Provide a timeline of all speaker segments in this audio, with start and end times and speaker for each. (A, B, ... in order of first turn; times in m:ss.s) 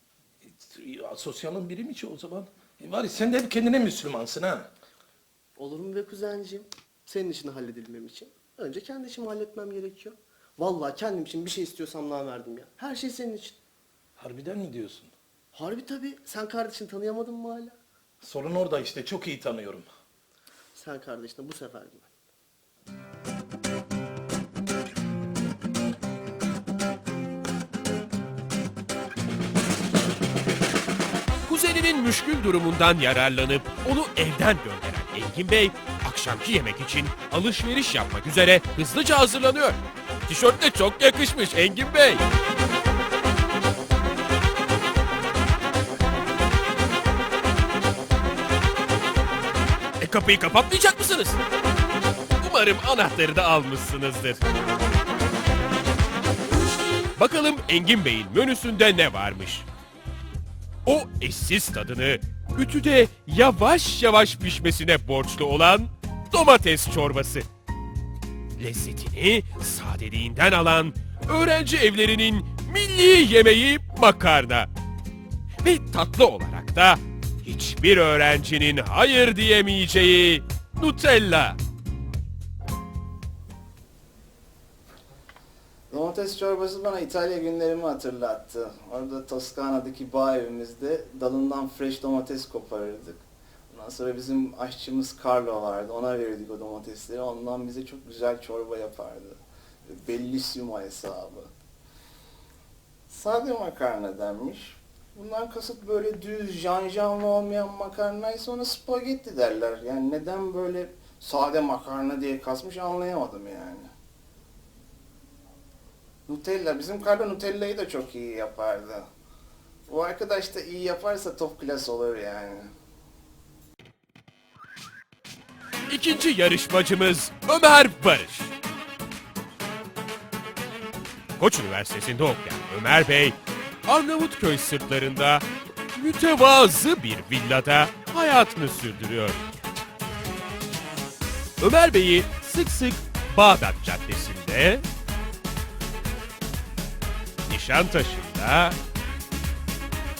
0:00.4-0:04.7 A
0:05.6-0:13.6 B
0:14.2-0:15.1 A
0:15.5-0:17.8 B
0:18.2-0:19.9 A
0:20.8-0:22.1 B
0:31.5-0:42.2 C
0:50.0-0:51.4 C
0:52.4-0:54.4 C
0:57.2-0:59.7 C
1:00.9-1:07.5 C
1:08.6-1:14.7 C
1:15.6-1:21.6 C
1:25.9-1:41.5 D
1:43.1-1:53.9 D
1:56.3-1:59.1 D
1:59.9-2:02.7 D
2:05.9-2:08.5 C
2:11.4-2:19.5 C
2:21.6-2:24.8 C
2:27.5-2:28.8 C